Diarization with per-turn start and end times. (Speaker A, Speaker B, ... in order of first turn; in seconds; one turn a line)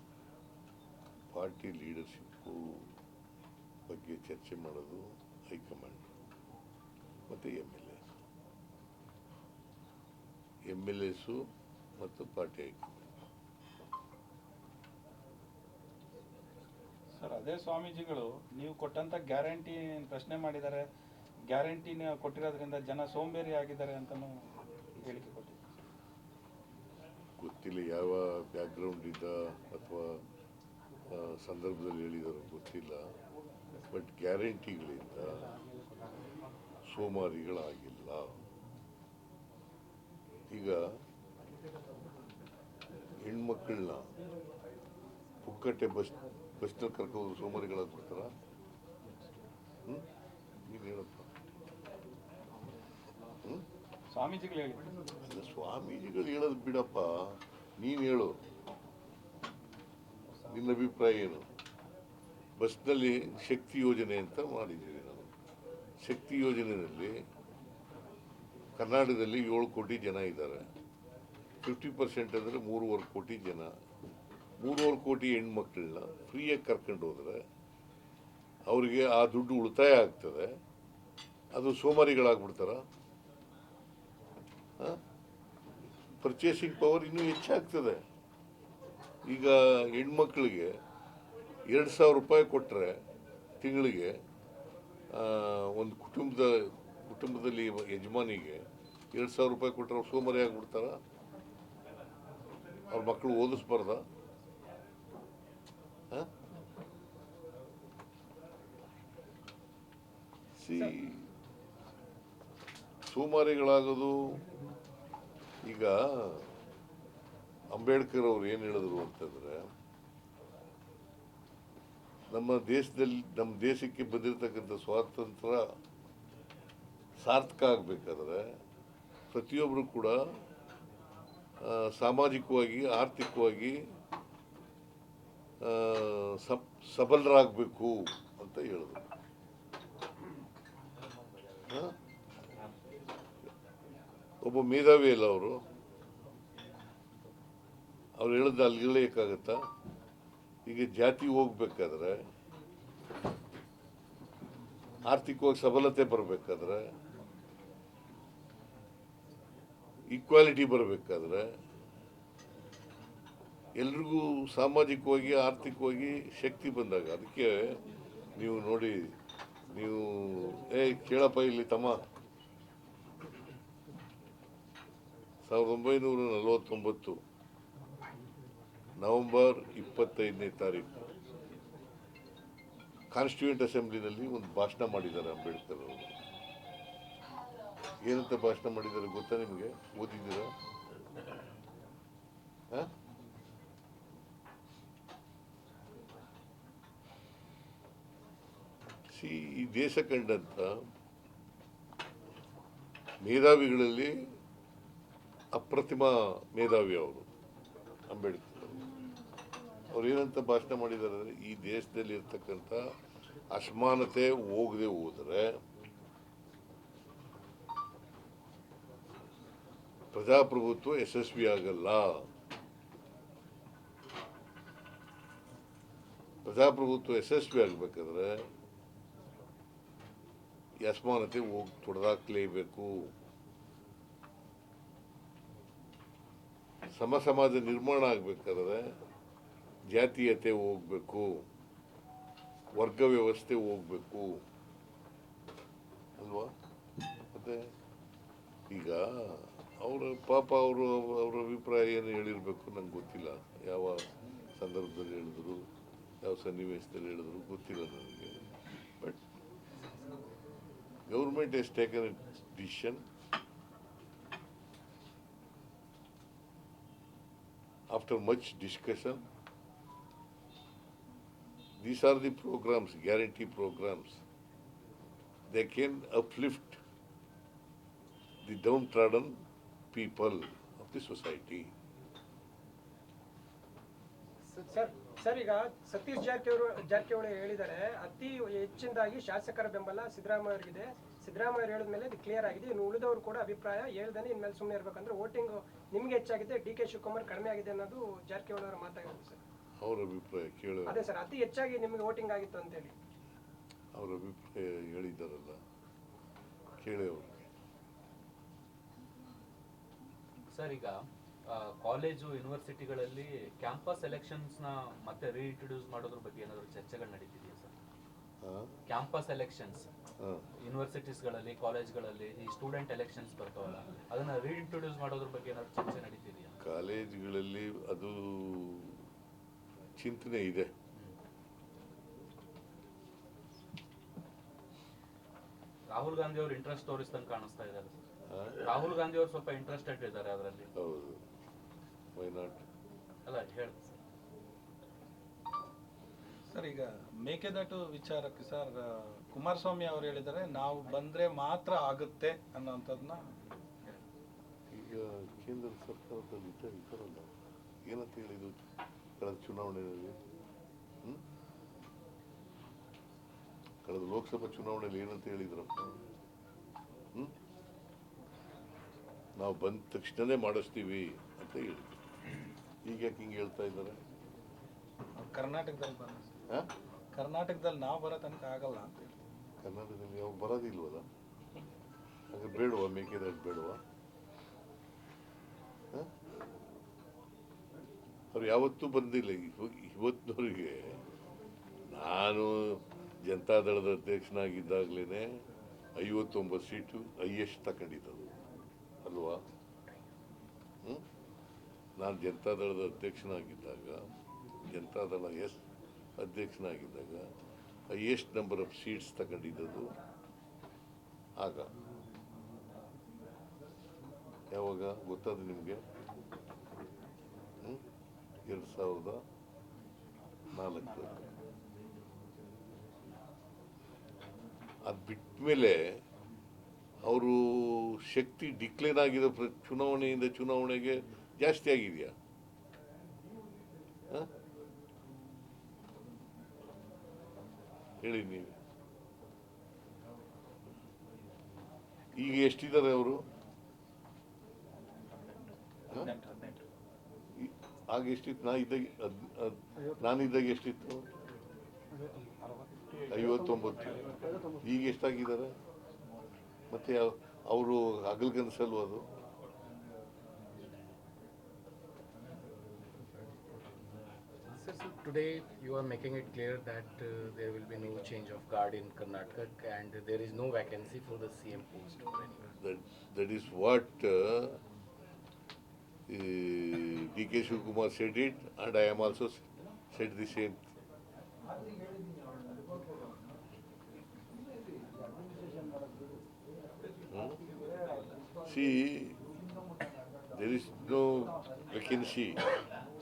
Speaker A: 1.3-2.9
Speaker A: 3.9-6.1
Speaker A: 7.3-8.1
Speaker A: 10.7-11.4
Speaker A: 12.0-13.1
Speaker B: 17.2-20.9
Speaker B: 21.5-24.4
Speaker B: 25.0-25.6
Speaker A: 27.4-30.2
Speaker A: 31.1-33.0
Speaker A: 33.9-35.6
Speaker A: 36.9-38.4
Speaker A: 40.5-40.8
Speaker A: 43.2-44.1
Speaker A: 45.5-48.3
Speaker A: 50.7-51.3
Speaker B: 54.1-54.9
Speaker A: 55.2-58.4
Speaker A: 60.5-61.5
Speaker A: 62.6-65.3
Speaker A: 66.0-67.2
Speaker A: 68.8-70.7
Speaker A: 71.6-73.7
Speaker A: 74.6-77.4
Speaker A: 78.7-80.5
Speaker A: 81.5-82.8
Speaker A: 86.2-88.0
Speaker A: 89.3-90.7
Speaker A: 91.7-93.0
Speaker A: 93.6-94.1
Speaker A: 95.1-101.0
Speaker A: 102.9-104.0
Speaker A: 110.6-111.3
Speaker A: 113.1-114.4
Speaker A: 115.6-116.5
Speaker A: 117.7-119.7
Speaker A: 122.3-125.7
Speaker A: 127.2-128.6
Speaker A: 129.3-130.2
Speaker A: 131.6-133.8
Speaker A: 135.6-139.1
Speaker A: 141.7-142.0
Speaker A: 144.4-145.6
Speaker A: 148.2-149.6
Speaker A: 150.7-152.2
Speaker A: 155.1-156.8
Speaker A: 160.1-161.5
Speaker A: 163.8-167.8
Speaker A: 168.4-169.2
Speaker A: 169.7-172.0
Speaker A: 175.4-177.2
Speaker A: 179.0-181.0
Speaker A: 183.1-186.1
Speaker A: 188.0-190.5
Speaker A: 199.1-200.8
Speaker A: 203.2-204.3
Speaker A: 205.5-207.3
Speaker A: 208.1-208.9
Speaker A: 209.9-212.8
Speaker A: 213.5-215.6
Speaker A: 220.1-222.3
Speaker A: 226.4-228.5
Speaker A: 230.8-233.1
Speaker A: 236.9-238.9
Speaker A: 239.9-241.4
Speaker A: 242.7-244.4
Speaker A: 246.2-246.5
Speaker A: 247.3-247.7
Speaker A: 248.7-255.7
Speaker A: 256.2-258.4
Speaker A: 261.1-263.1
Speaker A: 267.9-269.2
Speaker A: 271.8-274.2
Speaker A: 275.5-276.8
Speaker A: 278.4-279.4
Speaker A: 279.9-281.7
Speaker C: 284.5-299.4
Speaker A: 299.8-301.1
Speaker C: 300.9-302.9
Speaker A: 303.9-305.6
Speaker A: 306.8-307.4
Speaker D: 310.5-310.9
Speaker D: 311.5-317.7
Speaker A: 318.4-318.8
Speaker D: 318.9-319.9
Speaker A: 320.2-320.5
Speaker D: 320.6-326.6
Speaker A: 326.6-329.0
Speaker A: 330.0-330.7
Speaker D: 335.9-338.0
Speaker A: 338.3-338.7
Speaker D: 338.6-340.7
Speaker A: 340.8-341.2
Speaker A: 342.1-342.6
Speaker D: 343.3-344.0
Speaker B: 346.5-353.3
Speaker A: 354.7-357.3
Speaker A: 357.9-358.6
Speaker A: 359.2-360.2
Speaker A: 363.9-365.9
Speaker A: 369.4-372.1
Speaker A: 372.9-374.0
Speaker B: 375.2-376.4
Speaker B: 377.1-379.2
Speaker A: 379.6-381.1
Speaker A: 382.3-383.8
Speaker A: 388.3-391.0
Speaker A: 391.9-395.3
Speaker A: 396.0-398.3
Speaker A: 399.1-399.4
Speaker A: 402.0-404.1
Speaker A: 404.7-405.6
Speaker A: 406.2-407.3
Speaker A: 407.9-409.9
Speaker A: 411.4-411.7
Speaker A: 414.5-415.8
Speaker A: 418.4-419.2
Speaker A: 420.5-421.2
Speaker A: 424.9-425.8
Speaker A: 427.0-432.1
Speaker A: 438.0-438.5
Speaker A: 442.1-443.2
Speaker B: 445.9-446.6
Speaker A: 447.4-451.1
Speaker B: 451.9-453.4
Speaker A: 453.1-455.5
Speaker A: 456.7-459.1
Speaker E: 464.5-472.5
Speaker A: 472.6-474.6
Speaker A: 476.1-480.7
Speaker A: 487.1-487.4
Speaker A: 488.4-489.2
Speaker A: 490.3-492.6